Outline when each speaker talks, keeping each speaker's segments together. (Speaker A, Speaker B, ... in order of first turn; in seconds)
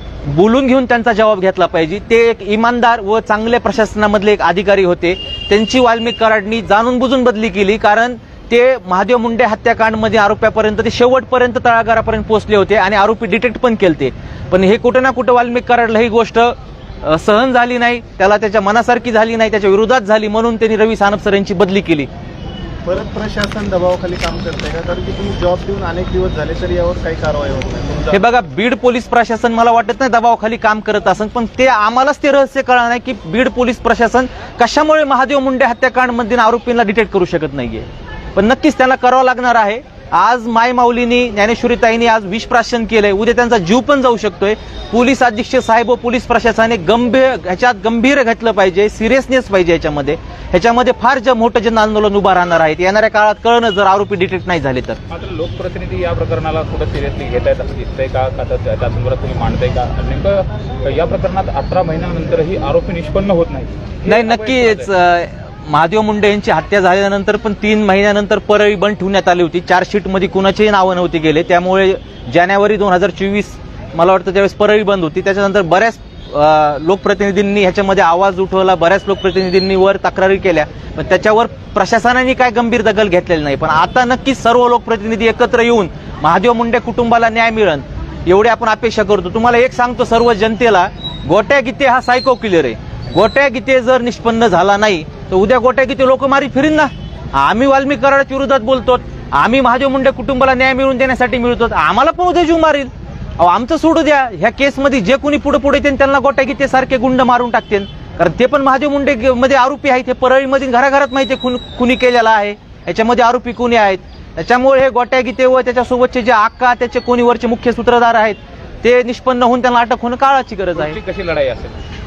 Speaker A: 0.2-22.1, 28.1-55.0, 64.0-121.0
Speaker B: 22.9-28.2
Speaker C: 55.1-64.9, 120.8-121.8